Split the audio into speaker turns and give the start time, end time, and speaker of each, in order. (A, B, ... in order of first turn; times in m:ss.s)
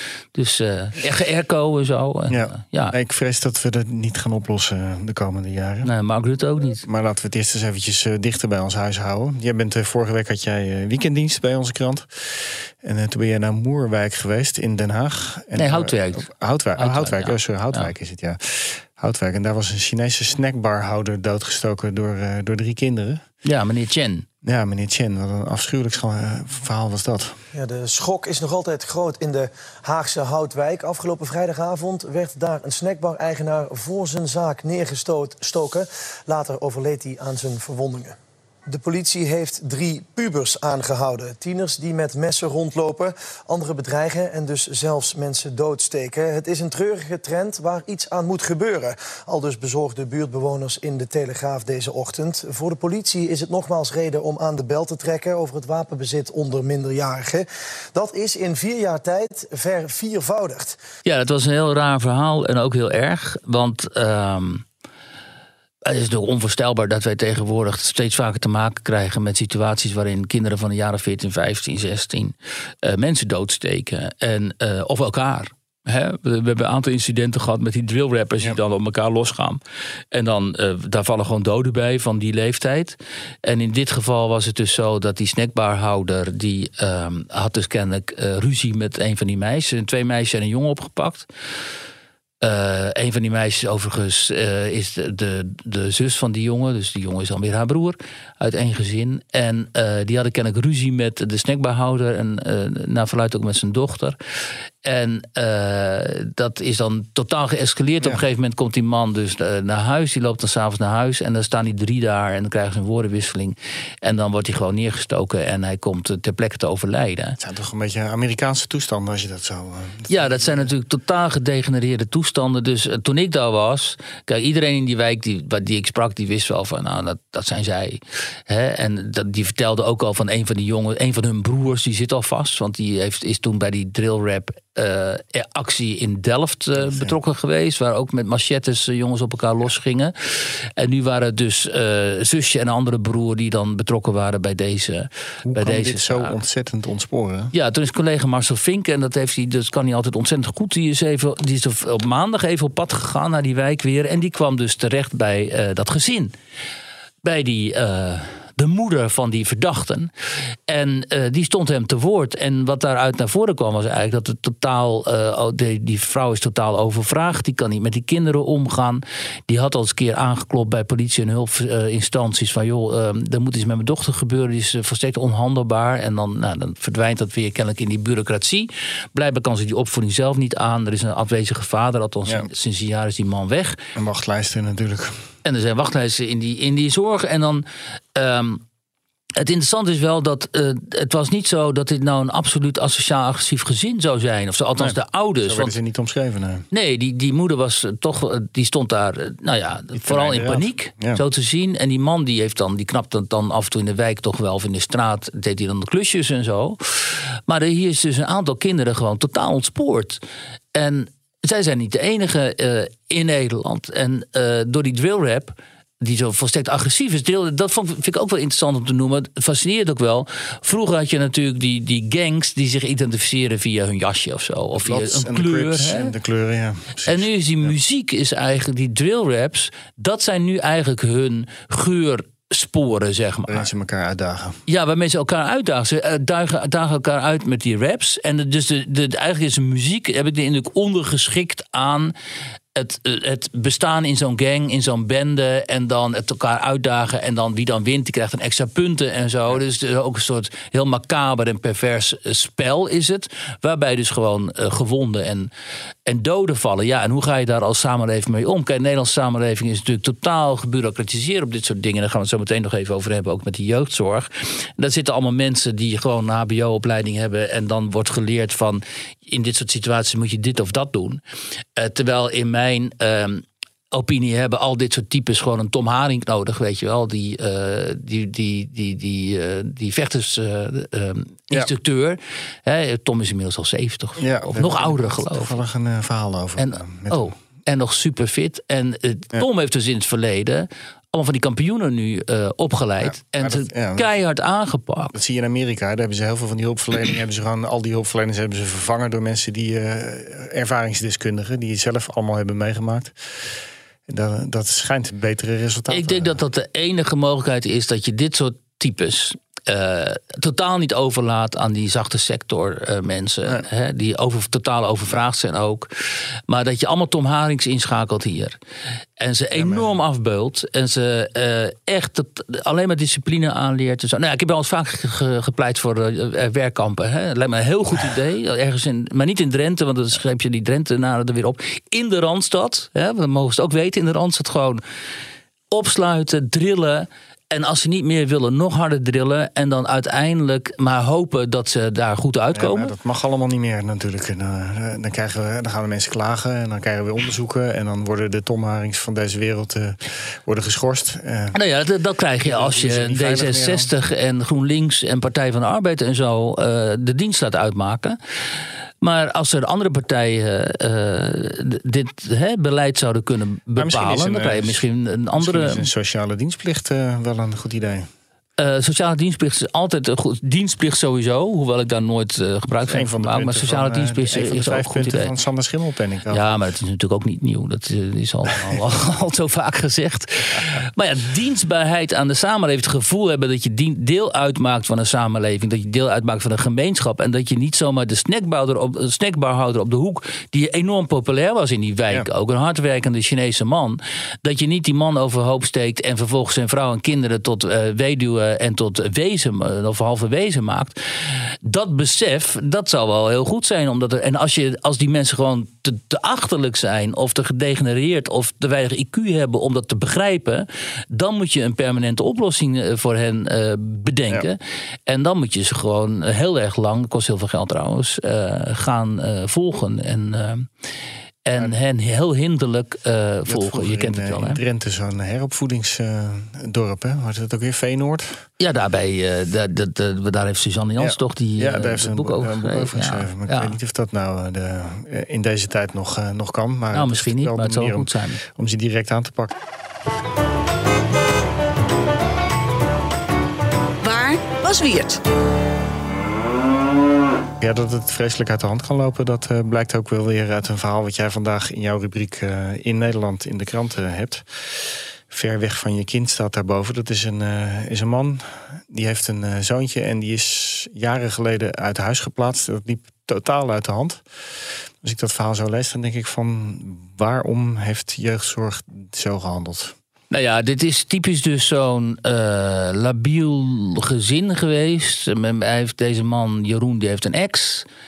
0:00.4-0:03.0 A
0:02.3-0:05.9 B
0:05.8-0:06.8 A
0:06.8-0:23.2 B
0:15.6-0:17.9 A
0:23.4-0:24.3 A
0:24.4-0:27.4 B
0:27.5-0:38.2 C
0:38.7-1:00.8 C
1:01.0-1:04.6 A
1:05.8-1:19.6 A
1:20.1-1:31.3 A
1:32.4-1:44.2 A
1:44.8-1:57.4 A
1:57.4-2:00.7 B
2:00.1-2:20.1 A
2:16.8-2:17.2 B
2:20.8-2:26.4 A
2:25.4-2:27.5 B
2:27.5-2:36.3 A
2:37.2-2:40.1 A
2:40.7-3:03.8 A
3:04.0-3:05.2 B
3:05.4-3:07.6 A
3:08.2-3:08.6 A
3:09.4-3:15.7 A
3:14.8-3:16.6 B
3:16.7-3:30.2 A
3:19.9-3:21.2 B
3:30.7-3:46.1 A
3:44.8-3:47.7 B
3:47.1-3:53.7 A
3:53.5-3:54.6 B
3:54.7-4:02.1 A
4:02.8-4:15.5 A
4:16.1-4:31.2 A
4:31.8-4:45.6 A
4:44.2-4:47.3 B
4:46.6-4:55.2 A
4:53.0-4:54.1 B
4:55.1-5:03.2 B
5:04.1-5:06.4 B
5:05.9-5:15.9 A
5:16.5-5:18.6 A
5:19.2-5:34.8 A
5:19.6-5:19.9 B
5:35.7-5:42.9 A
5:42.5-5:51.6 B
5:51.5-5:58.2 A
5:52.4-5:53.9 B
5:59.0-6:05.9 A
6:03.8-6:04.8 B
6:05.4-6:08.1 B
6:08.6-6:15.3 A
6:12.9-6:16.5 B
6:16.3-7:00.7 A
7:01.5-7:04.6 A
7:03.5-7:08.4 B
7:08.6-7:13.8 A
7:11.0-7:19.6 B
7:16.9-7:18.4 A
7:27.6-7:44.2 B
7:45.0-7:49.9 B
7:50.3-7:57.9 A